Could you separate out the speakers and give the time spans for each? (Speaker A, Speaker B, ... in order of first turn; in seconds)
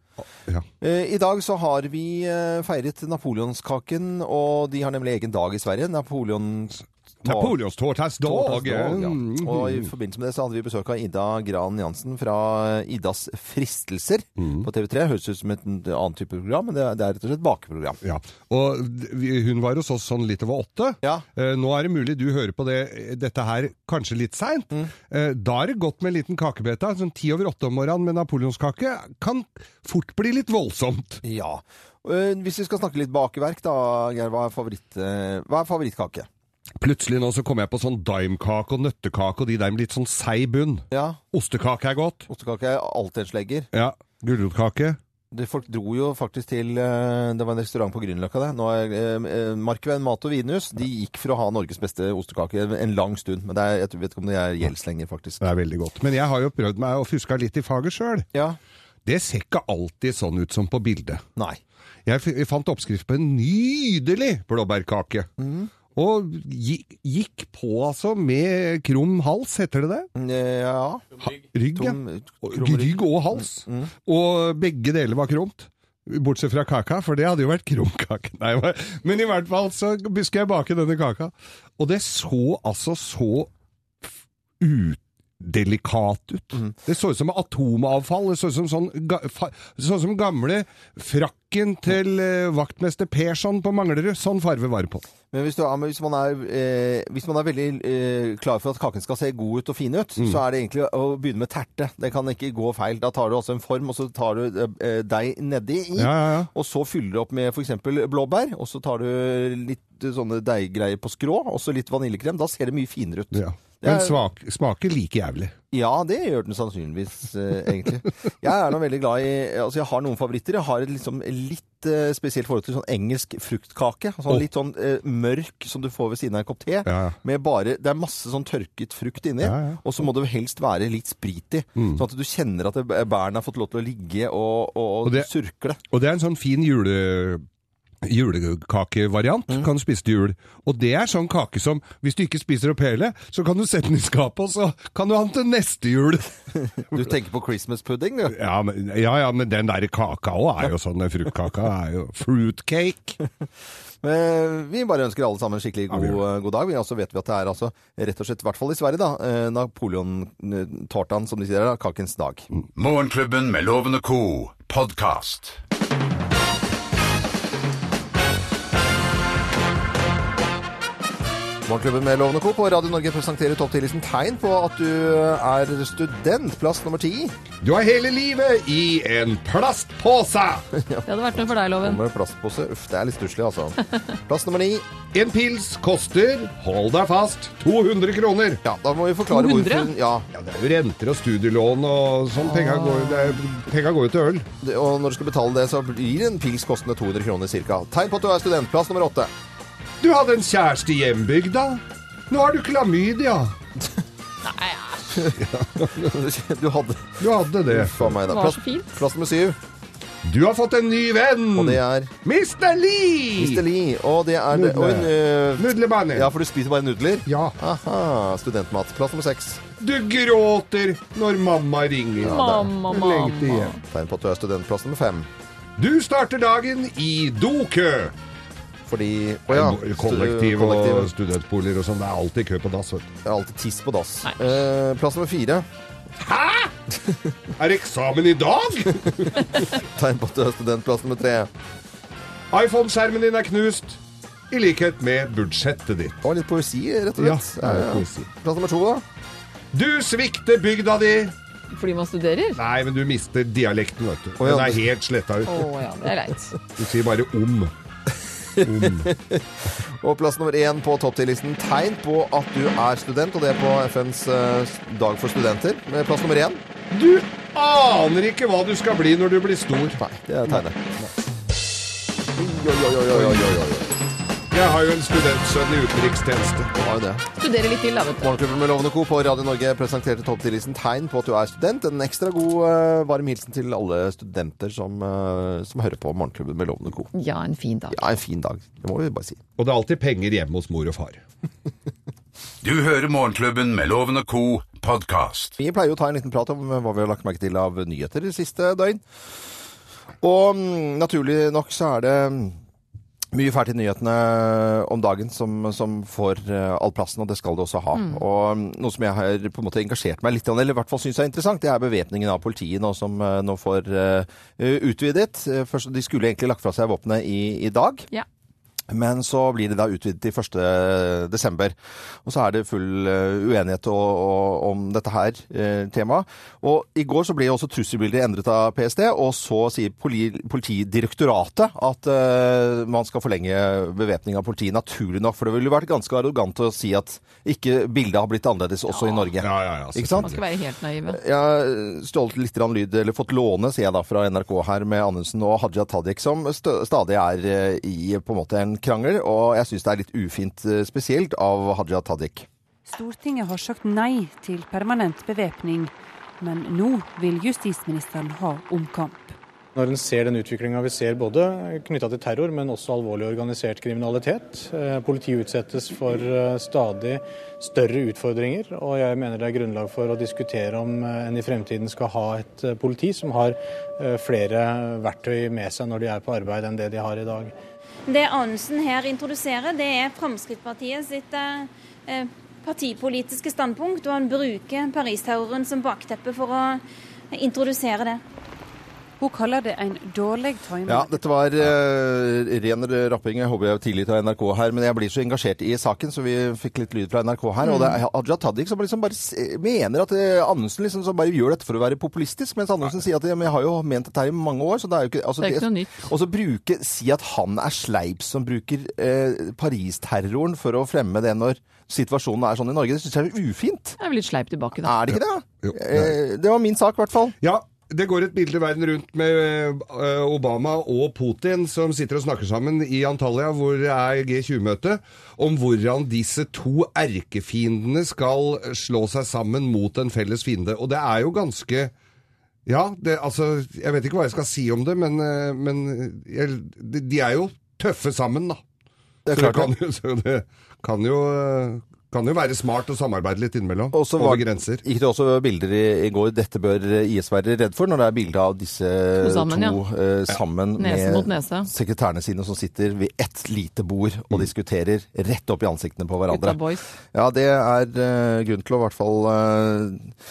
Speaker A: 0.8-7.5, 8.2-18.0, 31.2-36.3, 40.9-41.2, 42.3-43.7, 45.3-55.4, 65.4-65.7, 70.1-71.0, 71.7-73.9, 95.3-114.2, 115.7-135.8, 146.9-148.3, 154.0-162.5, 171.7-177.3, 180.7-184.9, 188.6-190.3, 194.6-199.3, 205.9-209.6, 211.6-212.1, 213.4-219.6, 222.2-222.7, 223.8-225.3, 228.8-231.1, 233.2-235.7, 239.8-241.5, 246.2-249.0, 254.4-254.8, 258.5-266.6, 270.0-270.9, 272.7-273.6, 276.8-277.2, 278.2-287.1, 287.9-289.4, 295.6-299.0, 300.2-302.6, 303.3-318.1, 318.9-340.4, 341.1-352.5, 390.8-414.0, 414.8-417.4, 439.2-439.7, 443.9-456.6, 457.1-460.1
Speaker B: 7.2-9.9, 14.4-14.7, 18.0-31.2, 36.8-42.3, 43.7-45.0, 55.4-58.3, 59.0-61.2, 62.0-65.3, 65.9-70.1, 71.3-83.5, 84.6-95.0, 106.0-106.5, 113.3-115.5, 126.8-127.2, 129.4-129.8, 131.8-132.0, 135.9-137.4, 138.0-146.3, 148.3-153.2, 155.9-156.2, 177.6-180.7, 185.1-188.6, 190.3-194.5, 200.0-203.5, 205.4-206.1, 207.2-208.2, 210.2-213.6, 214.5-216.3, 217.2-217.6, 219.8-223.8, 225.8-228.1, 229.5-233.1, 236.2-236.7, 237.6-239.7, 242.5-244.0, 244.5-246.2, 247.2-248.3, 249.7-251.3, 252.5-255.6, 256.7-257.7, 258.6-259.1, 266.9-271.1, 272.4-273.9, 274.5-276.7, 289.6-291.2, 339.4-340.4, 415.6-416.1, 417.4-431.9, 432.6-438.6, 439.3-444.8
Speaker C: 162.8-165.6, 292.6-295.6
Speaker D: 181.1-182.0, 189.3-189.9, 192.4-193.4, 204.4-205.3, 208.3-209.0, 222.2-223.8, 251.7-252.6, 255.4-256.5, 277.4-278.3, 287.1-288.0, 307.9-308.2, 338.9-339.3, 340.2-341.2, 397.6-398.0, 405.4-405.9, 414.0-414.9, 449.2-449.8, 450.8-451.7, 456.3-456.9
Speaker E: 352.9-359.3, 378.1-379.6, 380.4-380.8, 384.3-386.2, 387.8-388.1, 389.2-391.2
Speaker F: 359.7-377.5
Speaker G: 378.1-386.8, 387.3-388.2